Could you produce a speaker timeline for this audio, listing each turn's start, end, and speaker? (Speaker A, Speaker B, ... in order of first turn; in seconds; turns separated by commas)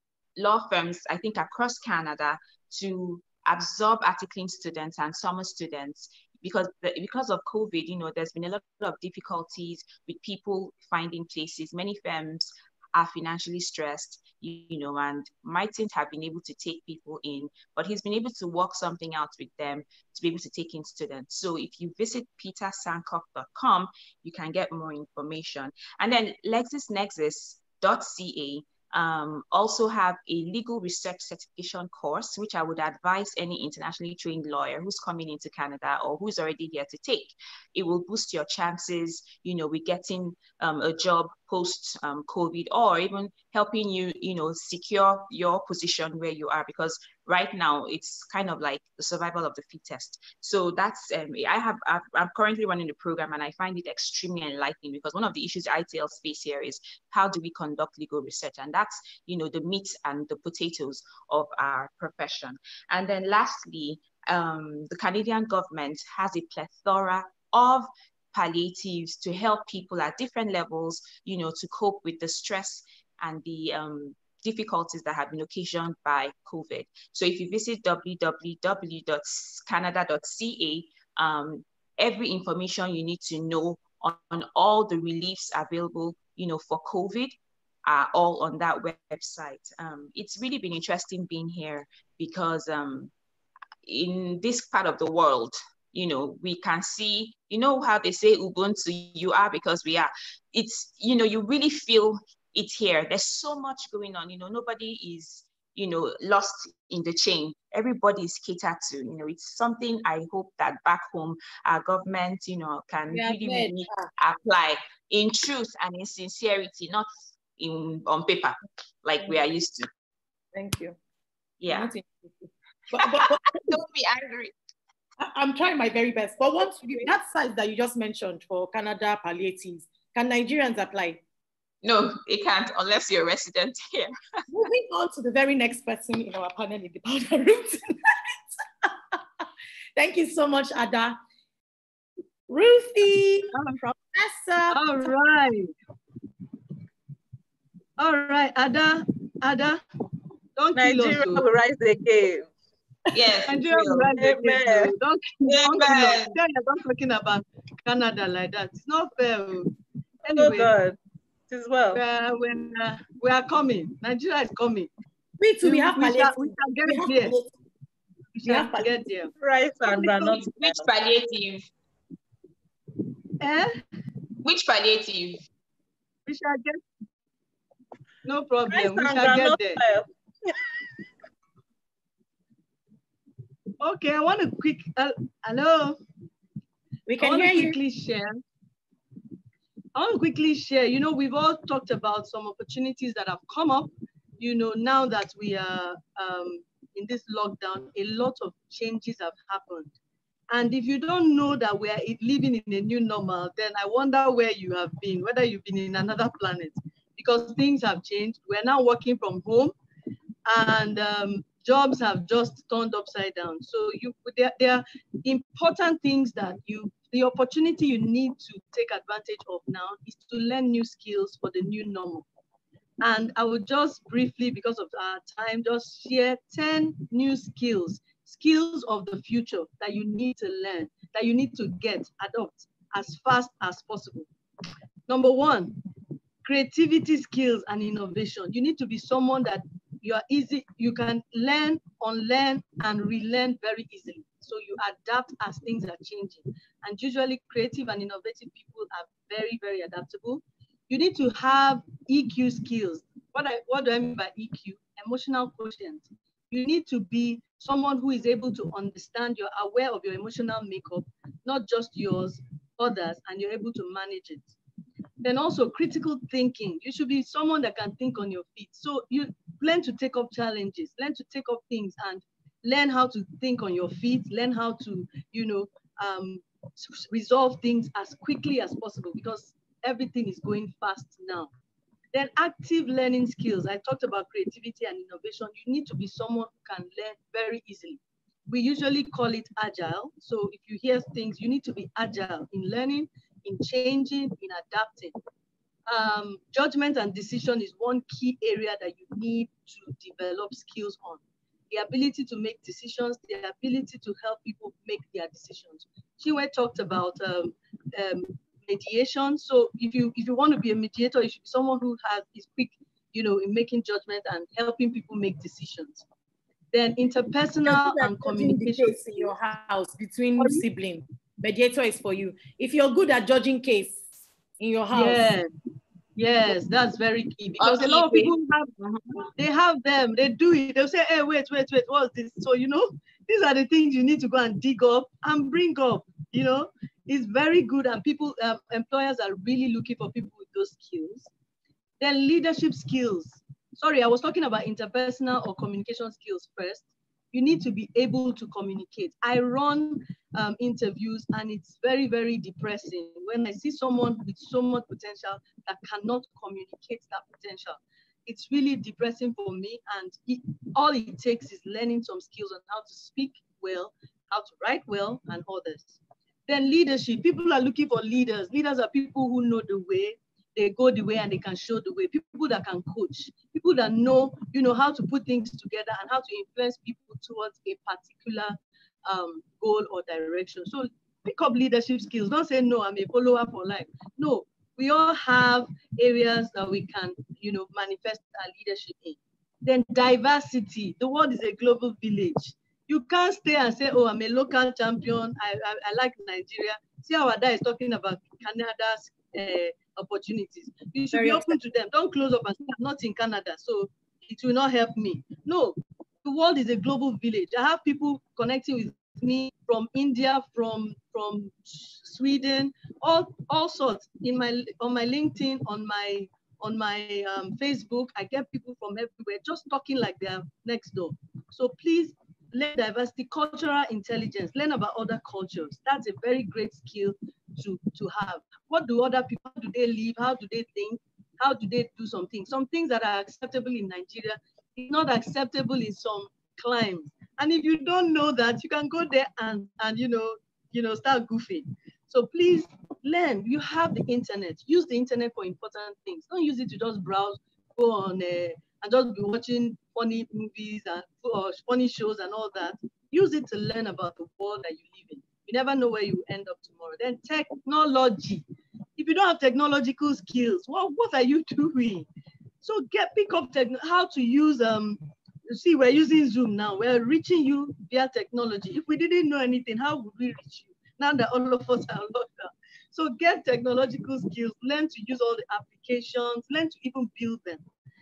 Speaker A: 0.4-87.3, Speaker A: 87.8-93.1, Speaker A: 93.8-119.9, Speaker B: 113.1-114.1, Speaker B: 120.5-121.0, Speaker A: 121.6-121.9, Speaker B: 121.7-123.7, Speaker A: 123.0-124.5, Speaker B: 125.2-131.2, Speaker A: 131.8-134.1, Speaker B: 134.5-138.3, Speaker B: 138.8-139.2, Speaker B: 139.9-141.2, Speaker B: 142.5-144.8, Speaker C: 144.7-145.7, Speaker C: 148.0-149.8, Speaker C: 150.6-151.4, Speaker D: 150.7-152.5, Speaker A: 153.1-154.1, Speaker C: 153.5-159.7, Speaker D: 154.1-154.9, Speaker A: 155.5-156.4, Speaker C: 160.2-160.7, Speaker D: 160.3-161.0, Speaker D: 161.5-162.0, Speaker C: 161.9-164.9, Speaker B: 165.4-167.5, Speaker C: 165.6-167.3, Speaker C: 168.3-169.3, Speaker B: 168.4-169.1, Speaker D: 169.4-170.8, Speaker A: 170.0-171.7, Speaker C: 173.4-173.8, Speaker A: 174.4-175.4, Speaker C: 176.2-176.8, Speaker C: 178.2-179.8, Speaker D: 178.7-180.8, Speaker C: 183.8-186.0, Speaker B: 187.1-187.8, Speaker C: 187.2-188.4, Speaker C: 189.9-199.9, Speaker C: 200.5-209.7, Speaker C: 210.4-222.3, Speaker C: 223.0-234.3, Speaker C: 235.1-235.8, Speaker C: 236.4-264.5, Speaker C: 265.2-281.5, Speaker C: 282.1-295.1, Speaker C: 295.9-316.0, Speaker C: 316.7-319.2, Speaker B: 317.6-324.0, Speaker C: 320.4-320.6, Speaker B: 324.6-325.3, Speaker C: 324.9-325.5, Speaker C: 326.1-341.3, Speaker A: 327.6-329.3, Speaker C: 342.0-458.4, Speaker B: 401.1-401.6, Speaker C: 459.0-462.1, Speaker C: 462.6-477.6